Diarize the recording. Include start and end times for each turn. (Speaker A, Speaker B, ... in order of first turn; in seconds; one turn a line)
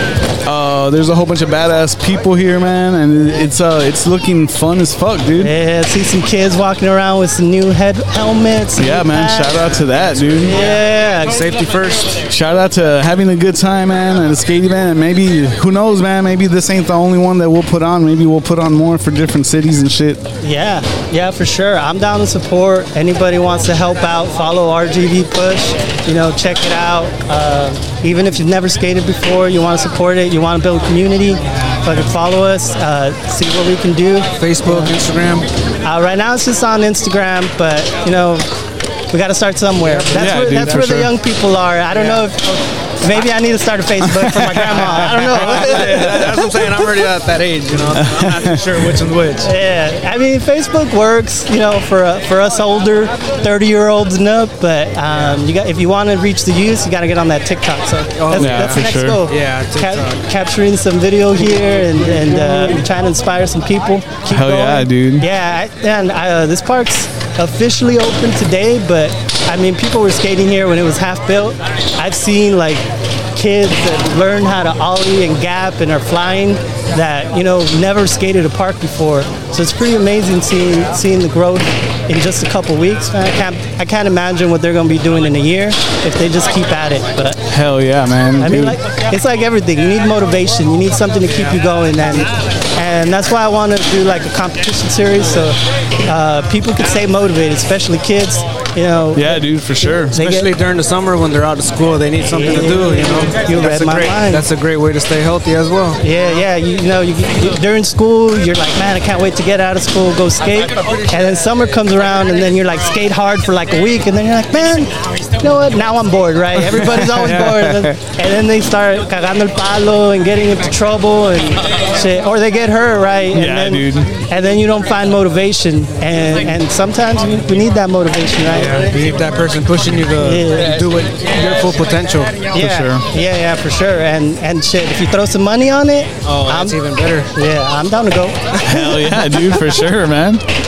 Speaker A: 0.4-5.5
Speaker B: 5.4-9.6
Speaker A: 8.8-10.6
Speaker C: 9.6-12.2
Speaker B: 10.4-11.5
Speaker A: 12.3-20.2
Speaker B: 20.4-34.9
Speaker C: 34.4-35.5
Speaker B: 35.8-38.5
Speaker B: 39.1-46.8
Speaker C: 39.8-40.9
Speaker A: 40.1-41.1
Speaker C: 41.9-42.2
Speaker A: 44.0-46.0
Speaker C: 44.9-49.5
Speaker A: 48.0-48.6
Speaker B: 49.4-72.8
Speaker C: 58.2-60.2
Speaker A: 58.3-59.2
Speaker C: 62.0-62.8
Speaker A: 64.3-65.3
Speaker B: 73.3-87.4
Speaker A: 87.5-88.8
Speaker B: 88.4-100.5
Speaker A: 99.1-100.1
Speaker C: 100.1-106.0
Speaker B: 102.3-104.5
Speaker B: 106.0-128.9
Speaker A: 116.7-118.0
Speaker C: 117.2-117.5
Speaker A: 123.3-124.2
Speaker C: 128.5-132.5
Speaker B: 130.2-130.8
Speaker B: 132.5-136.8
Speaker A: 132.5-133.0
Speaker C: 136.2-137.3
Speaker B: 137.3-139.1
Speaker A: 138.6-140.4